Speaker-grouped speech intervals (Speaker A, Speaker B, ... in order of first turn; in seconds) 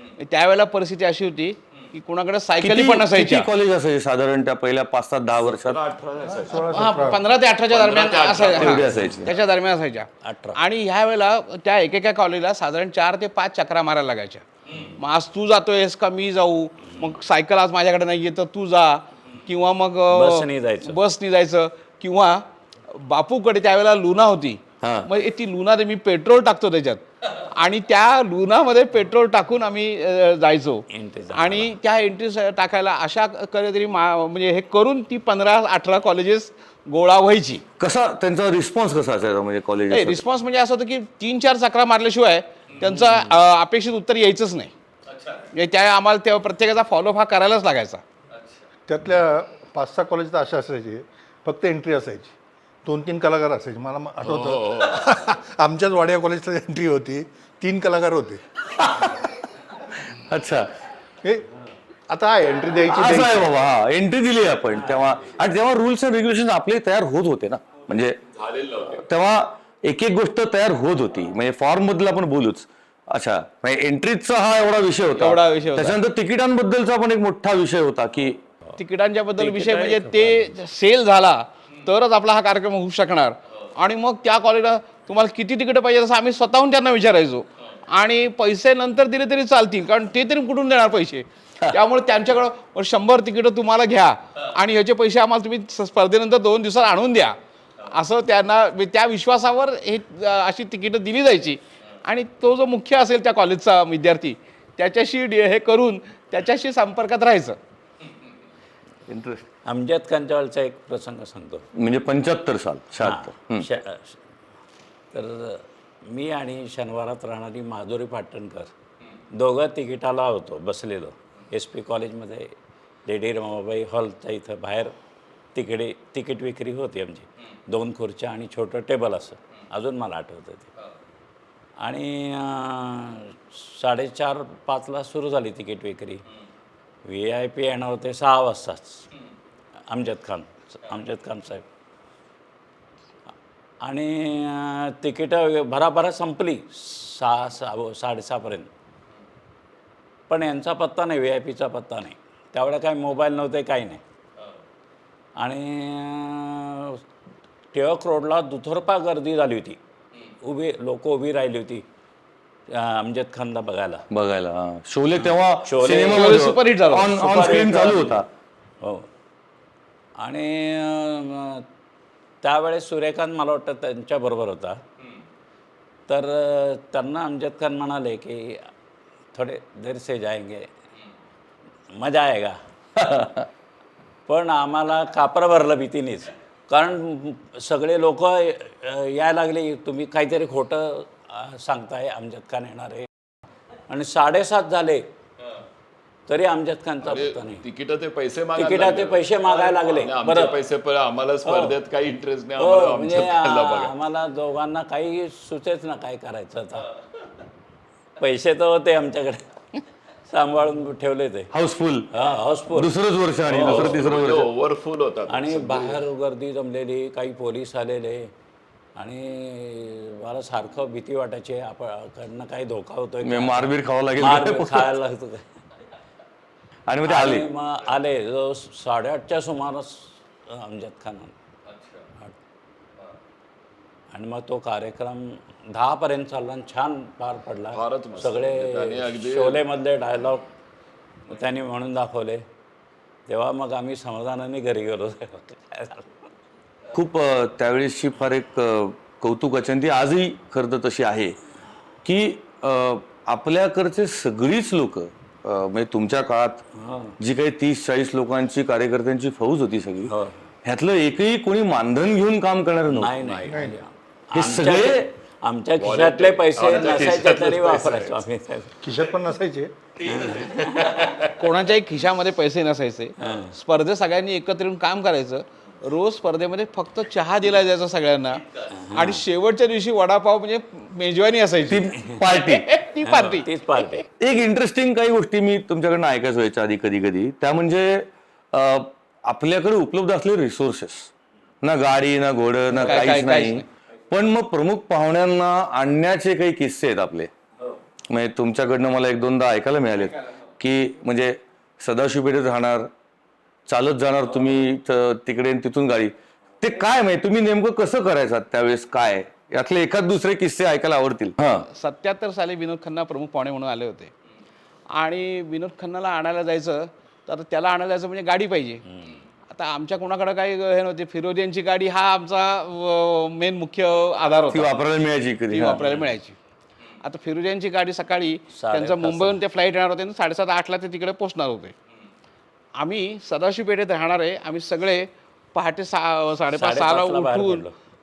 Speaker A: 0.2-3.5, 6.7-14.4, 15.0-37.6, 39.9-44.7, 45.5-48.0, 75.1-76.0, 78.8-107.6, 165.8-167.8, 271.3-283.9, 292.7-293.6, 311.7-314.1, 314.9-318.8, 319.5-324.7, 325.5-326.4, 327.0-331.7, 332.8-337.6
Speaker B: 2.6-5.8, 8.5-9.4, 24.8-25.1, 37.8-40.3, 58.8-59.2, 59.9-60.7, 62.9-68.2, 69.0-78.4, 109.1-109.5, 111.7-113.7, 164.1-168.3, 183.0-183.5, 211.5-212.1, 212.7-214.5, 223.2-224.9, 226.9-227.5, 246.9-251.4, 252.0-256.6, 257.2-260.1, 260.6-263.2, 264.3-265.1, 281.6-282.7, 284.2-297.3, 298.1-302.9, 303.7-311.7, 324.5-325.8
Speaker C: 5.5-7.0, 7.7-9.2, 54.2-55.4, 68.3-69.1, 197.0-203.9, 213.5-216.1, 237.7-239.7, 263.2-263.6, 265.8-268.2, 270.7-271.3
Speaker D: 6.2-7.2, 48.9-52.3, 52.9-58.4, 62.1-63.5, 263.5-263.8, 268.8-269.8
Speaker E: 10.2-10.6, 20.1-21.0, 30.9-31.7, 64.9-65.3, 79.4-80.5, 109.7-111.7, 113.0-114.2, 115.1-118.7, 119.3-122.5, 123.0-125.0, 125.5-130.7, 131.8-136.2, 137.1-139.1, 139.9-141.7, 143.8-148.7, 150.3-154.0, 155.4-157.0, 157.7-159.8, 160.4-161.8, 162.7-164.1, 165.2-166.5, 167.1-168.2, 168.8-169.1, 170.2-171.7, 172.4-174.8, 176.1-178.7, 179.3-180.7, 181.9-182.6, 184.3-193.1, 193.9-195.1, 196.3-197.6, 198.6-200.6, 201.4-201.8, 202.6-206.9, 208.2-209.4, 210.3-211.5, 212.1-212.9, 213.5-213.9, 215.3-218.3, 219.0-225.5, 227.1-231.3, 234.1-240.5, 241.3-242.4, 243.3-246.2, 256.8-257.2, 260.1-260.5, 262.9-268.8, 270.1-271.1, 273.2-273.6, 278.7-279.2, 283.0-284.1, 318.9-319.2, 325.8-326.1, 328.5-329.4, 336.5-337.8